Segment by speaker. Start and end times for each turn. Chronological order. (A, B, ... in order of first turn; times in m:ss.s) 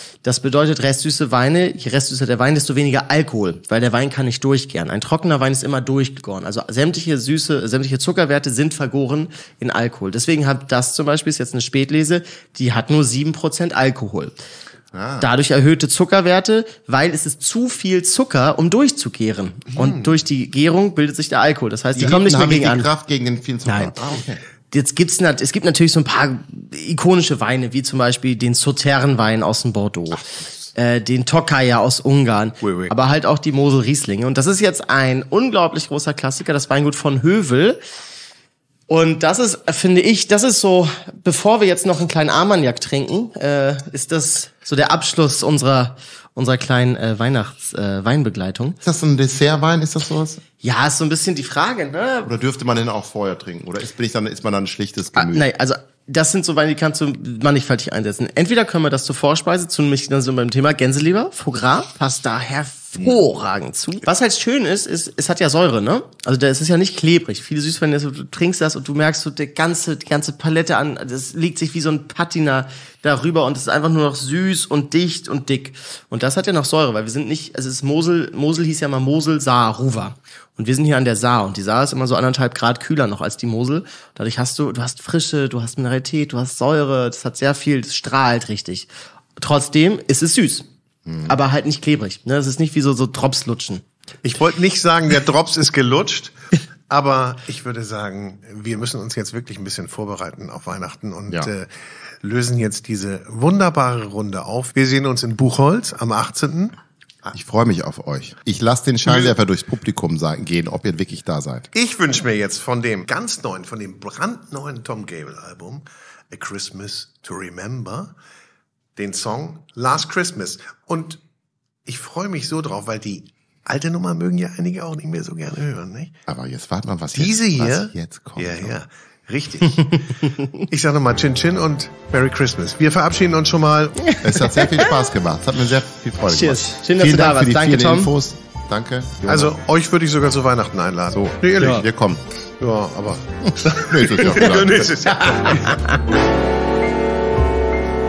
0:00.2-0:14.4 A
0:14.9-0:15.3 B
0:15.2-0:22.9 A
0:19.8-0:20.1 C
0:21.9-0:24.4 B
0:23.7-0:23.9 A
0:24.7-0:30.2 A
0:30.8-0:37.8 A
0:32.6-0:32.9 C
0:38.9-0:48.8 A
0:48.8-0:50.4 B
0:50.6-0:52.3 A
0:52.2-0:55.5 B
0:55.2-1:30.7 A
1:31.1-1:31.4 B
1:31.3-1:33.8 A
1:34.2-1:36.4 C
1:36.9-1:41.7 C
1:42.2-1:46.8 C
1:47.3-1:51.7 B
1:49.1-1:49.3 C
1:51.7-1:58.1 C
1:59.0-2:01.2 C
2:01.9-2:06.2 C
2:06.3-2:08.8 B
2:07.1-2:14.1 C
2:14.0-2:14.9 A
2:14.2-2:19.6 B
2:16.3-2:18.1 A
2:19.3-2:21.9 C
2:21.1-2:22.2 B
2:22.6-2:26.0 C
2:23.4-2:25.7 B